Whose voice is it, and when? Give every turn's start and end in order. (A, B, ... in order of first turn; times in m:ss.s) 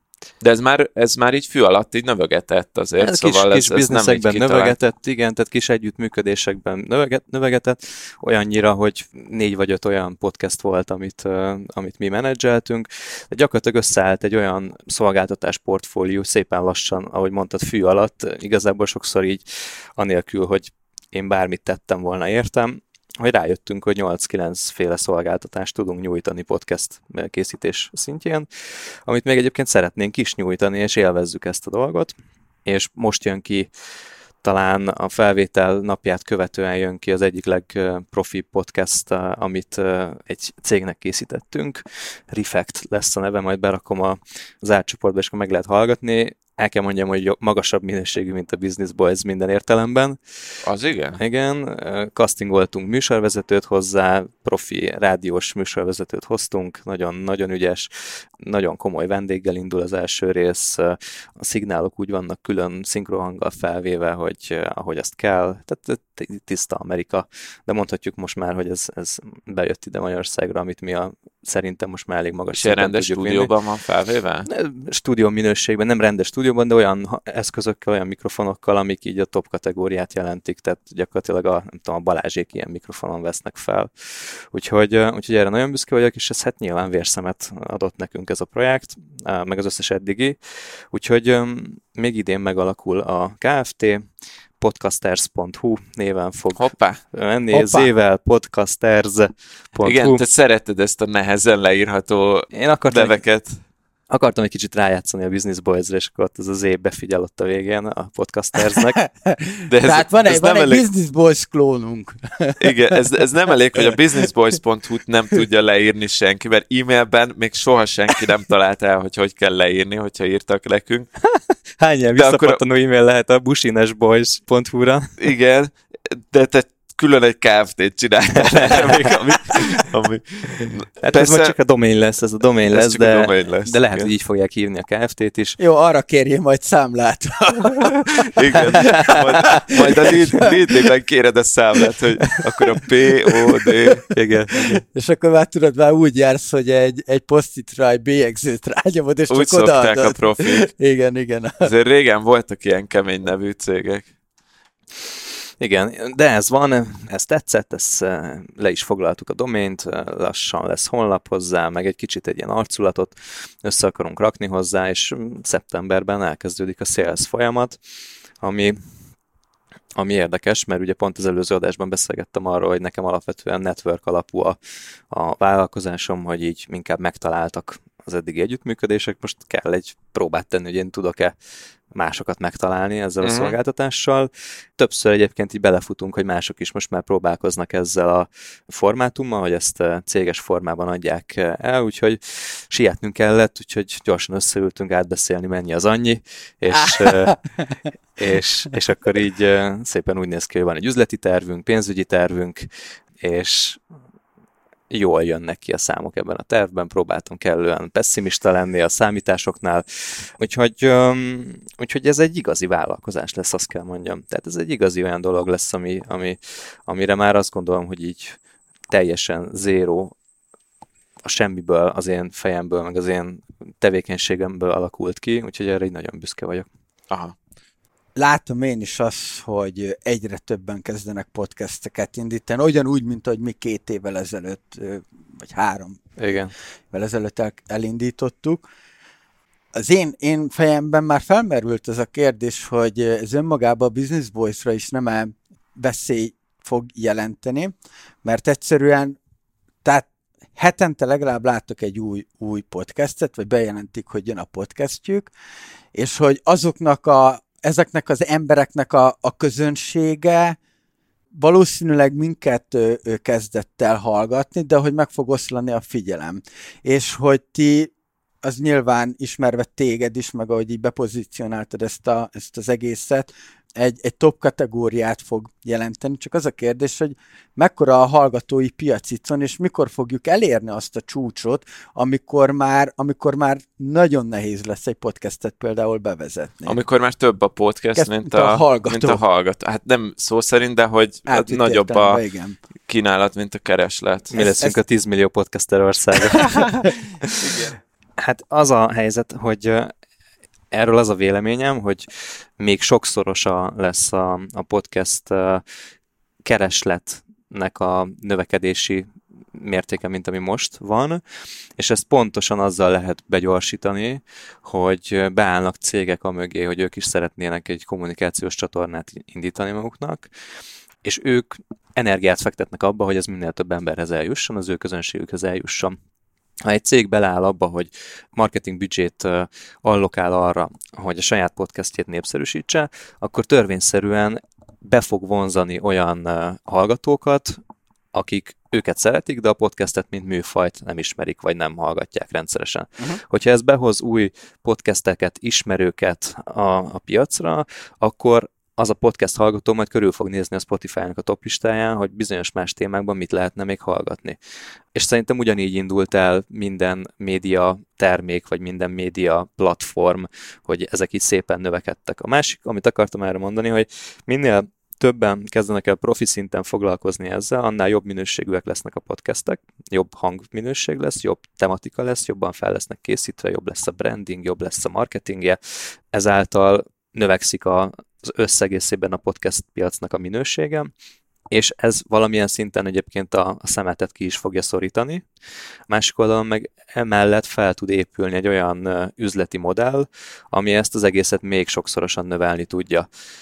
0:00.4-0:04.8 A
0:03.0-0:19.4 B
0:20.0-0:32.1 B
0:32.6-0:33.7 B
0:34.4-0:50.2 B
0:50.6-0:51.2 A
0:51.2-1:13.5 B
1:12.5-1:14.5 A
1:14.5-1:34.1 B
1:34.6-1:40.2 B
1:36.6-1:37.0 A
1:37.5-1:37.9 C
1:39.8-1:43.6 A
1:42.5-1:43.2 B
1:44.1-1:49.1 B
1:48.7-1:52.7 C
1:49.7-1:50.8 A
1:52.6-2:01.1 A
2:01.3-2:05.2 B
2:02.1-2:02.6 A
2:05.2-2:11.5 A
2:08.8-2:09.6 B
2:11.0-2:15.6 B
2:12.7-2:14.1 A
2:15.6-2:18.0 C
2:18.2-2:24.0 A
2:18.5-2:20.5 C
2:24.1-2:24.8 B
2:24.6-2:31.7 C
2:29.3-2:30.7 A
2:31.6-2:34.1 A
2:35.6-2:48.9 B
2:50.0-3:01.3 B
3:01.9-3:17.4 B
3:03.2-3:03.5 A
3:18.2-3:22.7 B
3:23.2-3:23.8 B
3:24.9-3:38.4 B
3:38.9-3:40.1 B
3:41.2-3:46.7 B
3:47.1-3:47.3 A
3:48.2-3:56.0 C
3:56.2-3:56.5 B
3:56.9-3:58.6 C
3:59.8-4:09.2 C
4:09.8-4:15.3 C
4:15.9-4:20.6 C
4:21.3-4:27.9 C
4:28.4-4:46.8 C
4:46.6-4:52.2 A
4:48.0-4:49.2 C
4:51.3-4:52.6 C
4:52.9-4:54.4 A
4:54.3-4:56.7 B
4:54.4-4:54.8 C
4:57.5-4:59.9 B
5:00.7-5:02.1 B
5:02.6-5:05.6 B
5:06.4-5:11.2 B
5:11.8-5:20.5 B
5:21.0-5:26.0 B
5:26.6-5:37.6 B
5:38.1-5:54.4 B
5:54.9-6:20.9 B
6:21.5-6:25.2 B
6:25.9-6:33.1 B